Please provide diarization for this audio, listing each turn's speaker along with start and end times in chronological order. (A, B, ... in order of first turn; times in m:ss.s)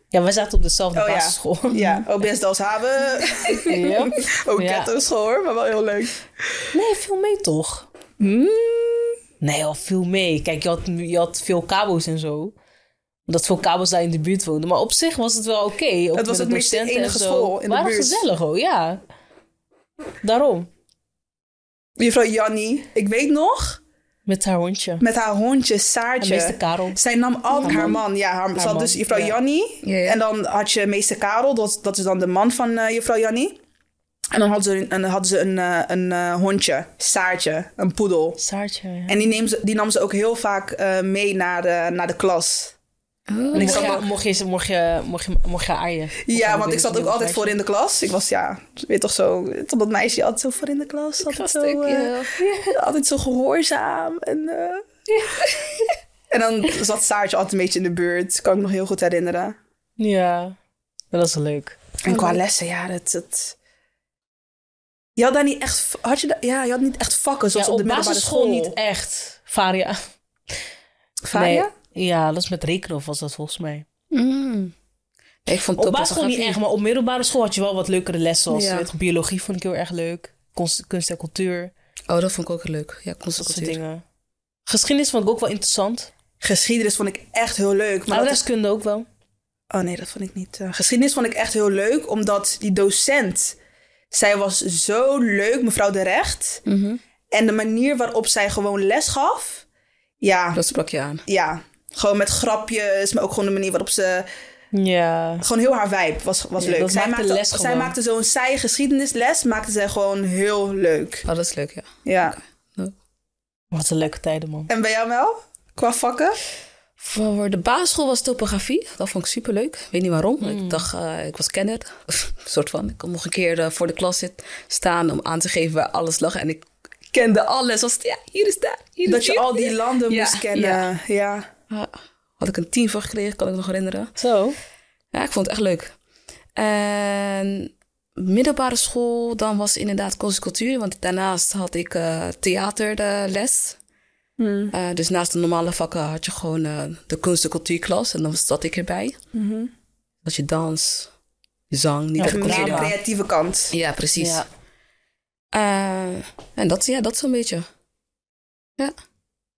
0:00.1-0:02.1 A
0:00.9-0:06.2 B
0:03.7-0:04.9 A
0:06.7-0:07.9 A
0:08.2-0:09.2 B
0:09.4-0:12.6 A
0:13.3-0:19.0 A
0:16.1-0:18.2 B
0:20.2-0:20.7 A
0:22.0-0:23.8 B
0:24.3-0:25.0 A
0:25.0-0:33.6 B
0:26.2-0:27.0 A
0:27.6-0:28.0 C
0:27.6-0:28.0 A
0:28.6-0:29.4 A
0:29.8-0:30.2 C
0:34.3-0:38.4 B
0:38.4-0:39.2 A
0:39.1-0:42.8 B
0:43.3-0:44.0 C
0:43.5-0:44.1 B
0:43.5-0:47.6 A
0:46.3-0:52.2 B
0:51.2-0:52.3 C
0:52.4-0:52.7 A
0:52.7-0:54.8 B
0:55.3-0:55.9 C
0:56.3-0:59.6 B
1:00.0-1:00.6 A
1:01.1-1:01.8 A
1:02.0-1:03.6 B
1:02.1-1:02.4 C
1:05.2-1:08.8 B
1:07.6-1:10.0 A
1:11.2-1:11.7 B
1:11.3-1:13.9 A
1:14.1-1:14.7 C
1:15.5-1:16.6 C
1:15.8-1:21.7 A
1:18.5-1:18.9 C
1:22.1-1:23.8 C
1:23.4-1:24.0 A
1:24.7-1:26.1 A
1:26.4-1:28.4 B
1:28.1-1:29.1 A
1:29.7-1:33.6 B
1:34.1-1:36.6 B
1:36.7-1:37.0 C
1:37.3-1:39.6 B
1:40.2-1:40.6 B
1:40.5-1:41.2 C
1:41.3-1:44.3 B
1:44.7-1:45.4 A
1:45.4-1:51.2 B
1:46.7-1:48.0 A
1:51.3-1:52.9 C
1:52.0-1:52.4 B
1:53.7-1:54.7 A
1:54.7-1:56.4 B
1:57.0-2:10.8 C
2:00.4-2:00.9 A
2:09.1-2:11.5 B
2:11.7-2:14.2 C
2:14.2-2:14.6 A
2:15.1-2:15.9 C
2:16.6-2:23.8 C
2:24.4-2:24.7 B
2:24.7-2:29.2 C
2:29.3-2:29.7 B
2:30.2-2:31.1 C
2:31.7-2:32.9 C
2:32.2-2:33.0 A
2:32.2-2:33.7 B
2:33.7-2:34.4 C
2:34.2-2:34.5 A
2:35.5-2:37.7 C